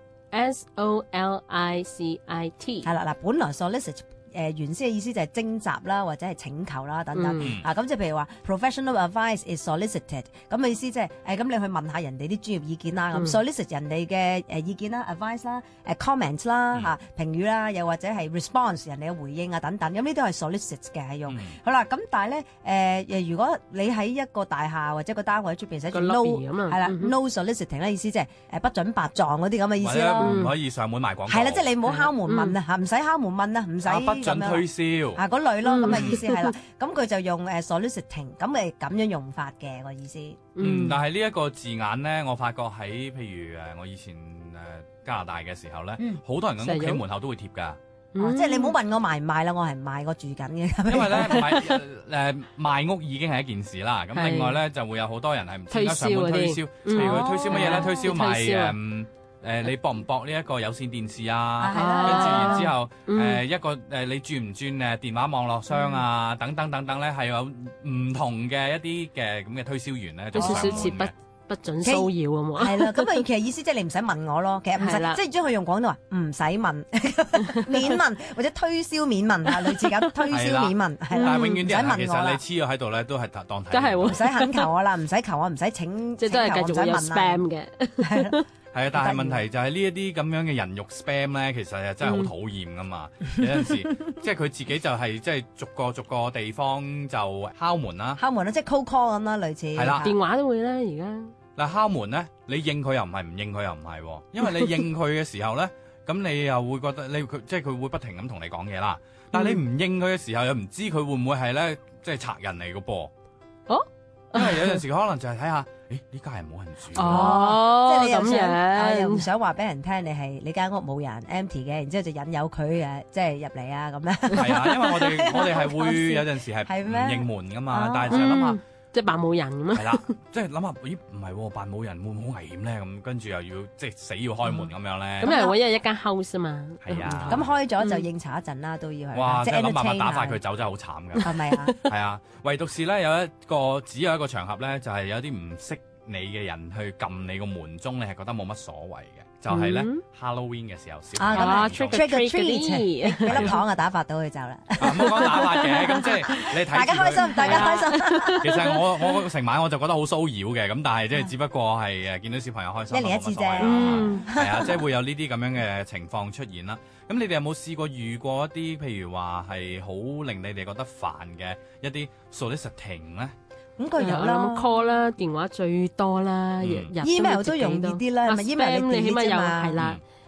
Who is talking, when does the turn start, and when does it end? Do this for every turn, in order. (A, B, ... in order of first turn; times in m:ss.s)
0:00.3-0:02.9 A
0:02.8-0:30.4 B
0:07.1-0:07.5 A
0:07.4-0:07.7 C
0:21.3-0:21.6 C
0:25.9-0:27.1 A
0:29.8-0:31.7 C
0:30.2-0:30.5 A
0:31.3-0:40.4 B
0:31.8-0:32.6 A
0:33.8-0:35.2 C
0:35.6-0:36.5 A
0:35.9-0:36.2 C
0:40.6-0:41.0 A
0:40.6-0:47.8 C
0:46.6-0:47.0 A
0:48.1-0:48.8 A
0:48.2-0:51.8 B
0:50.9-1:11.1 C
0:54.1-0:54.6 A
0:55.7-0:58.8 A
0:56.9-0:57.9 B
1:01.6-1:02.7 B
1:01.8-1:03.4 A
1:10.3-1:10.9 B
1:10.4-1:13.2 A
1:11.8-1:22.4 B
1:14.8-1:15.2 A
1:20.3-1:24.2 C
1:21.1-1:21.6 A
1:23.7-1:24.7 A
1:24.1-1:27.4 B
1:26.2-1:28.4 A
1:28.0-1:28.4 B
1:28.7-1:38.2 C
1:28.9-1:29.4 B
1:32.0-1:32.3 A
1:38.2-1:40.2 B
1:39.8-1:40.1 C
1:40.0-1:41.3 A
1:41.6-1:53.1 C
1:49.3-1:49.6 A
1:53.7-1:54.8 A
1:54.4-1:57.4 C
1:56.9-1:59.3 A
1:57.0-2:08.4 B
2:04.3-2:08.6 C
2:08.1-2:10.0 A
2:09.7-2:15.3 C
2:15.2-2:15.6 B
2:15.2-2:18.0 A
2:16.8-2:17.5 C
2:17.3-2:20.4 B
2:19.1-2:21.3 C
2:21.2-2:21.7 B
2:21.8-2:32.1 C
2:29.5-2:30.0 A
2:31.2-2:35.7 B
2:31.3-2:33.6 A
2:33.3-2:33.6 C
2:34.8-2:53.4 C
2:34.8-2:36.3 A
2:36.4-2:38.5 B
2:37.2-2:38.7 A
2:42.9-2:44.8 B
2:43.6-2:44.3 A
2:53.8-2:54.8 B
2:54.0-3:00.0 A
2:56.6-2:56.9 C
2:57.0-2:59.8 B